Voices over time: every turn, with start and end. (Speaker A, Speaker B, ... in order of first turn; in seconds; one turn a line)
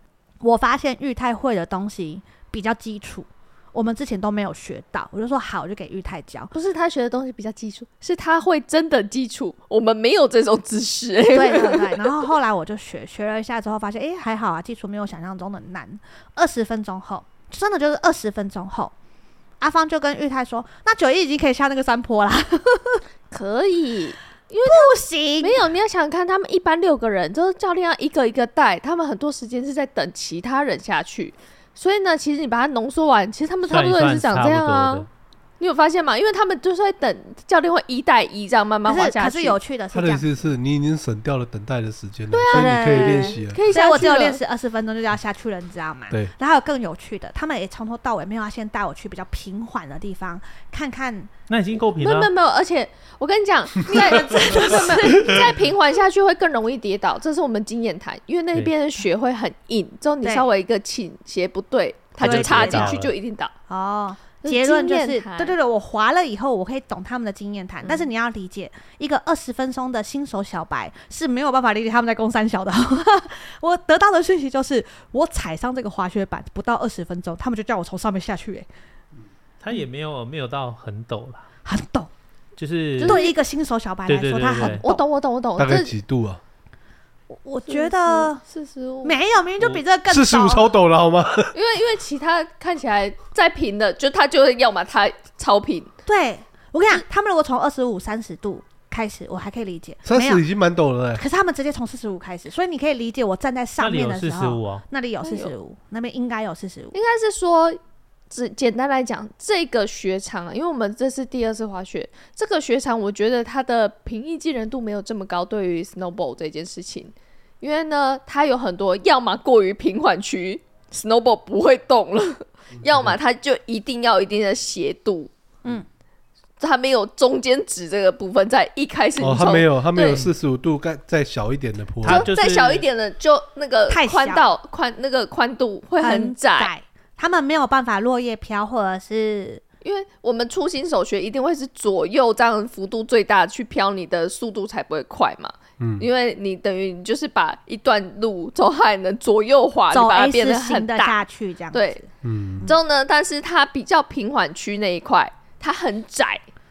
Speaker A: 0.4-6.5
Speaker B: 6.5-12.1
Speaker A: 11.3-18.9
Speaker A: 19.6-23.0
Speaker B: 23.3-35.1
Speaker A: 24.6-25.6
Speaker C: 33.7-35.1
Speaker B: 35.6-39.6
Speaker A: 38.8-40.5
Speaker D: 39.9-43.6
Speaker B: 42.3-44.4
Speaker A: 42.5-51.3
Speaker C: 51.5-52.3
Speaker B: 52.0-63.5
Speaker A: 53.9-55.5
Speaker A: 62.2-63.0
Speaker C: 62.2-63.1
Speaker A: 63.7-78.7
Speaker B: 64.4-65.5
Speaker C: 79.6-81.5
Speaker A: 81.6-82.1
Speaker C: 82.6-83.2
Speaker B: 83.0-83.3
Speaker A: 83.0-85.0
Speaker C: 84.1-84.8
Speaker B: 84.6-85.9
Speaker D: 85.6-86.4
Speaker A: 87.3-88.4
Speaker B: 87.7-89.2
Speaker A: 89.0-90.7
Speaker D: 90.1-91.5
Speaker B: 91.5-95.9
Speaker A: 96.0-100.4
Speaker D: 100.0-101.2
Speaker A: 101.1-106.9
Speaker C: 103.8-104.8
Speaker B: 105.2-105.5
Speaker B: 106.9-125.3
Speaker B: 126.6-130.2
Speaker D: 129.2-132.3
Speaker C: 132.0-132.8
Speaker B: 132.0-136.7
Speaker A: 133.9-134.5
Speaker A: 136.0-139.6
Speaker B: 139.8-151.2
Speaker D: 145.8-146.1
Speaker A: 149.9-152.1
Speaker B: 151.7-152.0
Speaker D: 152.2-152.6
Speaker B: 152.6-156.4